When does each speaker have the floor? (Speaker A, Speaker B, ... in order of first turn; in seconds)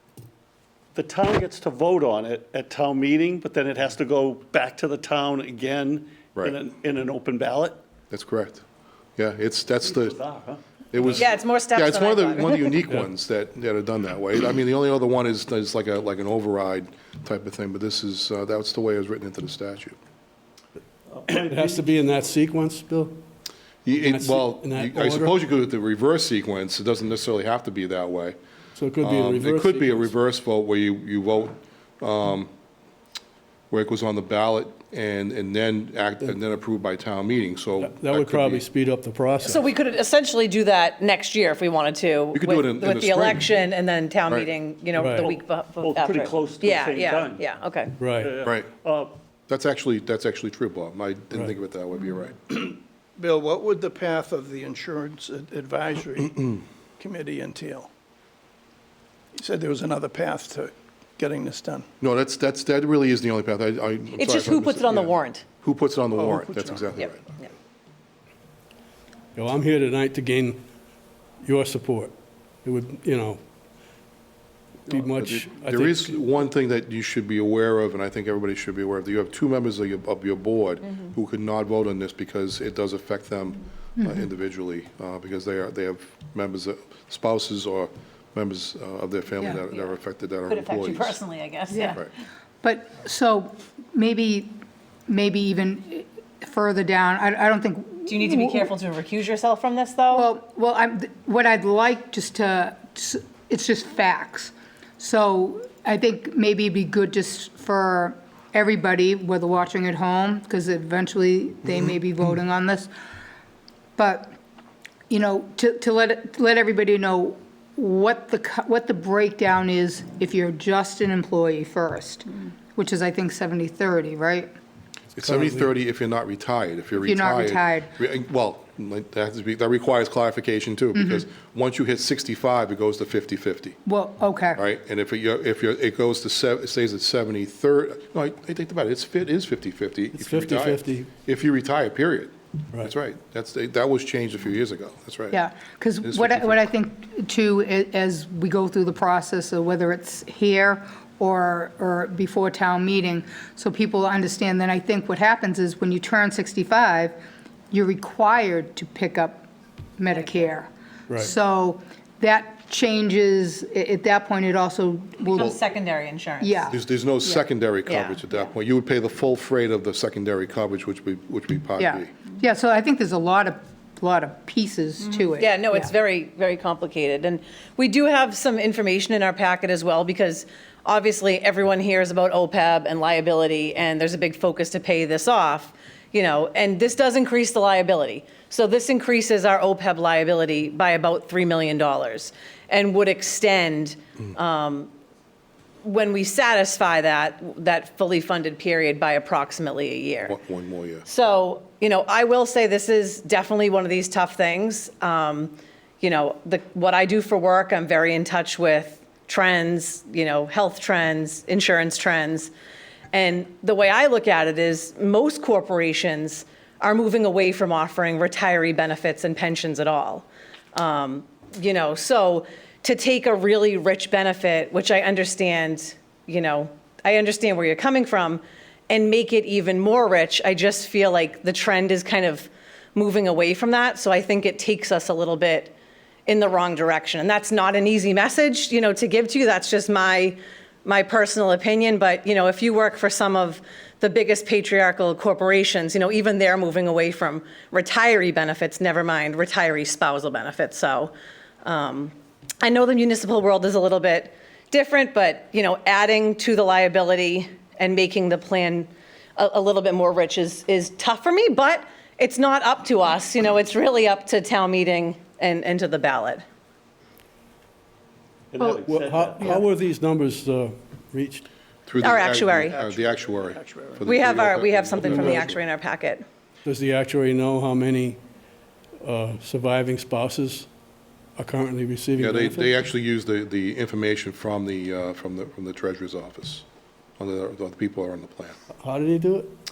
Speaker A: 0.9-7.8, 9.8-10.6, 21.1-22.0, 45.2-47.5, 48.2-49.1, 268.5-269.7
Speaker B: 8.1-8.6, 9.2-10.2, 10.9-20.0, 23.8-28.4, 29.0-32.5, 33.7-38.6, 42.3-43.5, 48.4-48.7, 49.5-52.5, 62.0-67.2, 74.9-91.2, 125.2-133.8, 134.6-145.4, 146.0-146.7, 166.7-172.1, 200.2-201.0, 271.9-275.6, 282.2-286.6, 287.2-288.6
Speaker C: 11.1-12.7, 39.4-48.0, 64.2-65.4, 67.0-67.5, 89.7-92.0, 98.1-100.3, 160.1-160.5, 165.3-166.7, 167.8-168.4, 175.1-194.9, 195.8-200.4, 201.1-212.5, 213.1-235.7, 236.2-266.4, 272.0-272.8, 274.0-276.2
Speaker D: 21.3-23.2, 23.9-25.3, 28.8-30.1, 37.8-39.6, 45.0-45.2, 48.0-48.3, 69.3-70.6, 71.4-72.1, 72.6-73.4, 74.9-76.2, 125.2-125.7, 140.1-141.1, 161.1-161.3, 268.8-271.5, 275.1-275.5, 276.6-278.2, 279.0-280.7, 281.4-282.7, 288.8-289.5
Speaker E: 52.5-57.9, 59.3-61.9, 66.2-66.8, 272.2-274.1
Speaker F: 84.0-84.2, 91.7-92.0, 92.6-94.6, 95.1-98.7, 100.1-112.9, 114.0-114.3, 115.1-124.5, 127.0-127.9, 130.9-131.2, 133.8-134.6, 145.3-157.2, 157.7-159.4, 160.0-165.6, 166.4-167.4, 171.8-175.9, 268.6-268.8